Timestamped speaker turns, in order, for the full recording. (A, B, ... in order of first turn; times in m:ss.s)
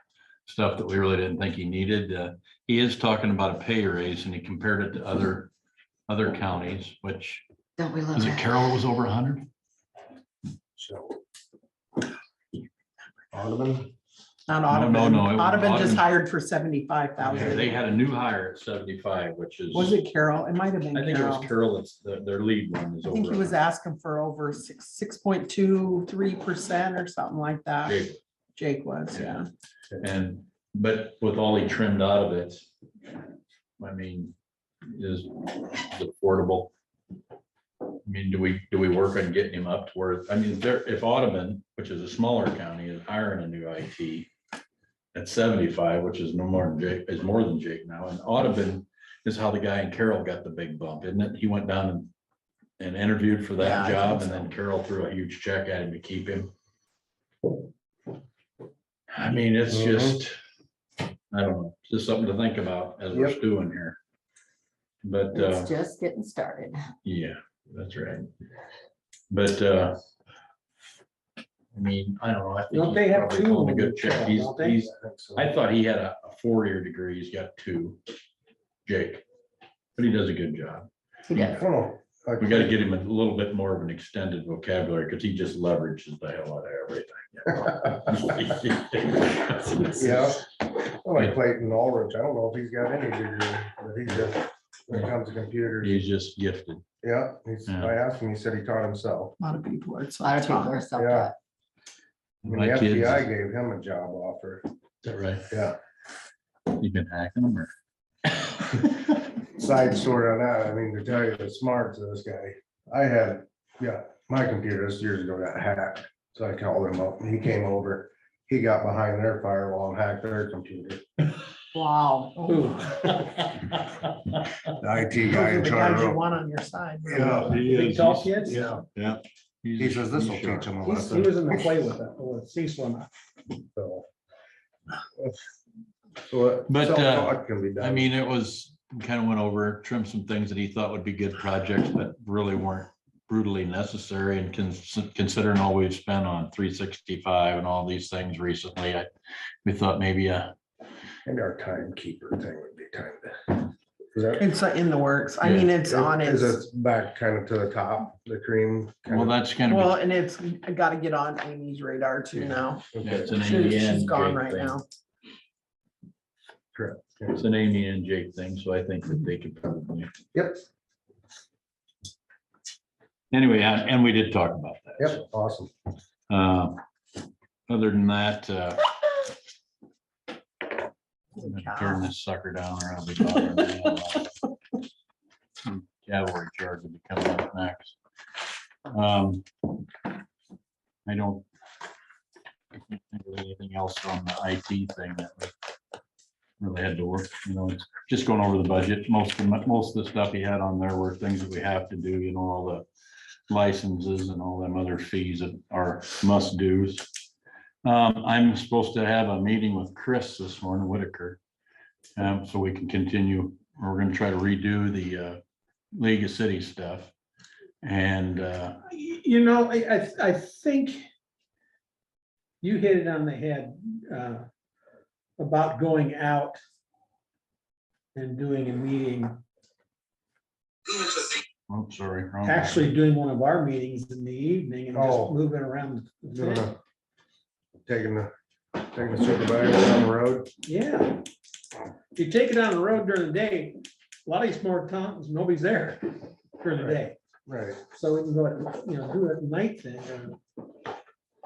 0:00.4-0:05.5 A
0:06.1-0:07.4 A
0:07.8-0:08.5 B
0:08.1-0:09.5 A
0:10.8-0:11.2 C
0:13.3-0:13.9 C
0:14.5-0:17.7 D
0:14.7-0:16.0 A
0:17.2-0:20.0 A
0:17.4-0:17.6 C
0:19.7-0:21.5 D
0:20.9-0:23.6 A
0:23.1-0:28.0 D
0:27.8-0:28.2 A
0:28.6-0:29.5 D
0:29.1-0:29.4 A
0:30.0-0:32.6 A
0:33.8-0:34.3 A
0:34.8-0:36.7 A
0:38.0-0:44.3 A
0:45.1-0:52.1 A
0:52.8-0:56.5 A
0:53.6-0:54.2 D
0:59.1-1:00.4 A
0:59.7-1:00.2 C
1:01.3-1:04.0 A
1:05.0-1:05.7 A
1:05.3-1:06.8 B
1:07.0-1:08.3 A
1:09.3-1:10.0 A
1:11.7-1:18.0 A
1:12.7-1:14.8 E
1:14.8-1:15.5 C
1:18.8-1:19.2 A
1:20.0-1:21.6 A
1:21.3-1:22.7 C
1:22.4-1:30.2 A
1:29.9-1:36.0 C
1:35.8-1:36.8 A
1:37.0-1:39.3 C
1:37.7-1:37.9 A
1:39.4-1:40.8 D
1:40.2-1:41.4 B
1:41.0-1:41.3 C
1:42.4-1:43.2 A
1:42.4-1:44.6 C
1:45.0-1:45.5 A
1:45.5-1:45.8 C
1:46.6-1:47.7 A
1:49.4-2:01.0 C
2:01.7-2:02.5 D
2:02.4-2:03.0 E
2:04.6-2:06.2 C
2:05.3-2:07.5 D
2:07.0-2:07.7 C
2:07.4-2:10.7 A
2:07.5-2:08.7 E
2:08.4-2:08.8 C
2:09.8-2:11.6 C
2:10.8-2:13.1 E
2:13.7-2:14.0 C
2:16.3-2:18.1 C
2:16.7-2:29.1 A
2:29.6-2:30.5 A
2:31.2-2:34.5 C
2:34.4-2:36.6 D
2:35.4-2:35.7 A
2:35.8-2:39.4 C
2:39.1-2:40.0 A
2:39.7-2:44.8 D
2:42.4-2:44.8 A
2:42.9-2:43.3 C
2:46.7-2:47.4 C
2:47.3-2:50.1 A
2:50.3-2:50.6 C
2:53.3-2:55.2 A
2:55.0-2:55.7 C
2:56.3-2:56.8 A
2:57.7-2:58.9 A
3:01.4-3:02.1 D
3:01.4-3:04.3 A
3:05.6-3:08.0 A
3:08.8-3:09.8 A
3:11.0-3:11.4 A
3:12.7-3:15.5 A
3:16.6-3:22.8 A
3:23.5-3:27.1 A
3:27.8-3:31.4 A
3:32.2-3:35.4 A
3:35.9-3:37.1 A
3:37.8-3:38.8 A
3:38.9-3:41.1 E
3:42.6-3:44.5 E
3:45.4-3:46.6 E
3:48.1-3:49.4 E
3:51.7-3:52.9 A
3:52.4-3:56.7 E
3:54.9-3:55.3 C
3:56.3-3:56.7 C
3:57.8-4:00.5 C
4:00.6-4:01.2 E
4:02.1-4:07.2 E
4:06.8-4:07.8 C
4:07.9-4:10.4 E